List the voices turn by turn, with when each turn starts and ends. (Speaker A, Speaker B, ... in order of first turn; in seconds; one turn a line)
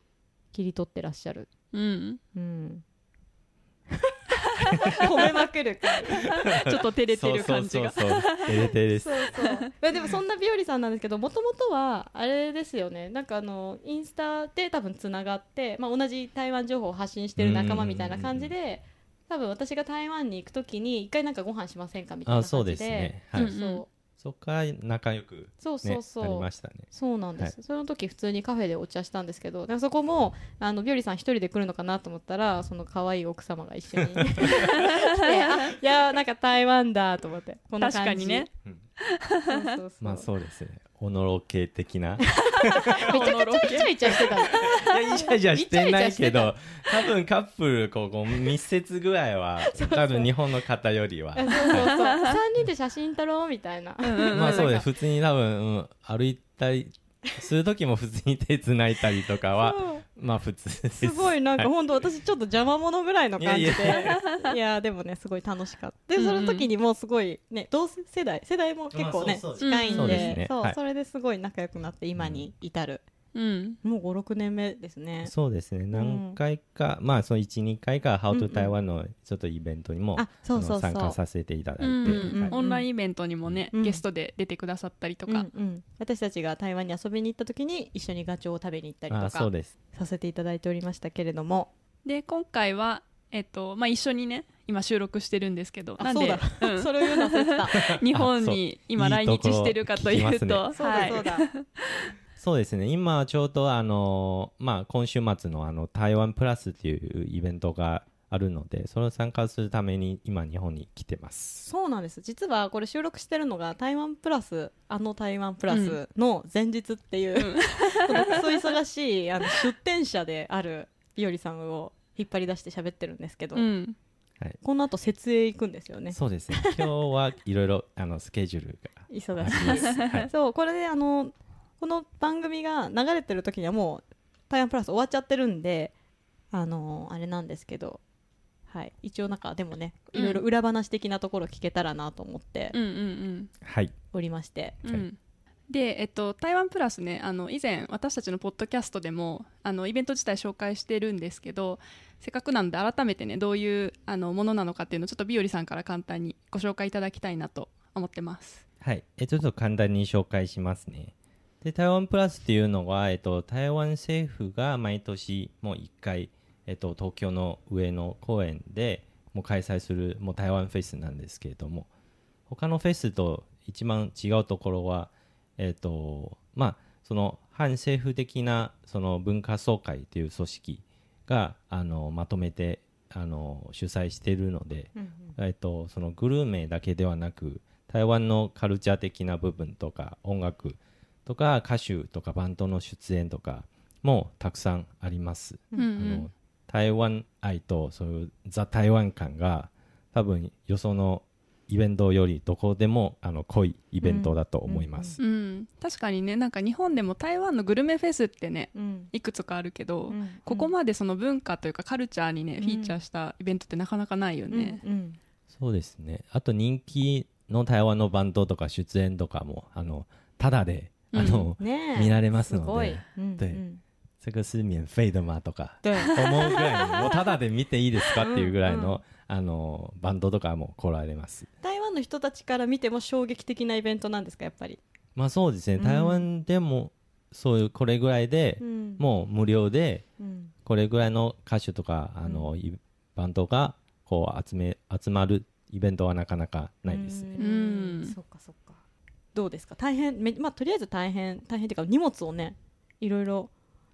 Speaker A: 0.5-1.5
Speaker B: 1.7-2.2
Speaker A: 2.3-2.8
Speaker A: 3.9-6.3
Speaker B: 6.1-8.7
Speaker C: 6.3-9.3
Speaker A: 8.9-23.9
Speaker C: 17.4-18.5
Speaker C: 22.2-23.5
Speaker B: 23.4-23.8
Speaker C: 24.2-27.5
Speaker A: 25.6-38.5
Speaker C: 34.2-34.8
Speaker B: 34.7-35.0
Speaker B: 37.8-38.5
Speaker B: 39.0-39.6
Speaker A: 39.5-40.3
Speaker C: 40.0-43.3
Speaker A: 42.3-46.5
Speaker B: 42.9-45.0
Speaker C: 44.1-52.0
Speaker A: 49.6-50.3
Speaker A: 51.3-54.9
Speaker B: 51.6-52.4
Speaker B: 54.0-54.7
Speaker C: 54.3-61.7
Speaker A: 59.5-60.0
Speaker A: 61.0-73.0
Speaker C: 63.4-64.3
Speaker B: 66.2-66.7
Speaker C: 68.9-70.8
Speaker B: 69.6-70.4
Speaker C: 72.2-72.4
Speaker B: 73.3-73.8
Speaker A: 73.8-75.3
Speaker C: 75.2-82.5
Speaker A: 75.9-76.4
Speaker A: 78.3-78.7
Speaker A: 80.1-81.2
Speaker B: 81.8-85.5
Speaker A: 82.0-82.8
Speaker A: 83.7-84.0
Speaker A: 85.3-91.7
Speaker C: 89.1-89.7
Speaker B: 92.0-102.1
Speaker A: 96.0-97.8
Speaker C: 97.7-101.1
Speaker A: 100.7-101.5
Speaker C: 102.4-111.7
Speaker A: 111.7-123.7
Speaker B: 115.7-116.0
Speaker B: 117.3-118.7
Speaker B: 123.5-124.0
Speaker A: 124.6-126.9
Speaker C: 126.1-130.3
Speaker A: 129.1-135.9
Speaker B: 129.7-130.2
Speaker A: 136.5-138.0
Speaker A: 138.7-142.7
Speaker B: 140.1-140.4
Speaker B: 142.7-143.5
Speaker C: 143.6-143.9
Speaker A: 144.1-144.8
Speaker B: 144.8-145.2
Speaker B: 145.7-158.6
Speaker C: 158.8-171.9
Speaker C: 172.5-205.2
Speaker A: 184.9-185.3
Speaker B: 195.8-196.3
Speaker A: 204.0-205.2
Speaker B: 205.2-214.8
Speaker A: 208.7-209.1
Speaker A: 210.1-210.7
Speaker A: 212.6-213.0
Speaker A: 214.5-215.2
Speaker C: 215.5-223.6
Speaker B: 221.1-221.5
Speaker A: 221.6-223.8
Speaker C: 224.2-231.5
Speaker A: 225.8-226.5
Speaker B: 226.0-227.1
Speaker A: 228.2-229.0
Speaker A: 231.6-234.8
Speaker C: 235.2-240.0
Speaker A: 235.8-236.2
Speaker A: 238.6-239.0
Speaker A: 240.2-240.5
Speaker C: 240.6-247.3
Speaker A: 242.2-242.5
Speaker A: 246.9-248.8
Speaker B: 247.4-248.2
Speaker A: 249.3-253.5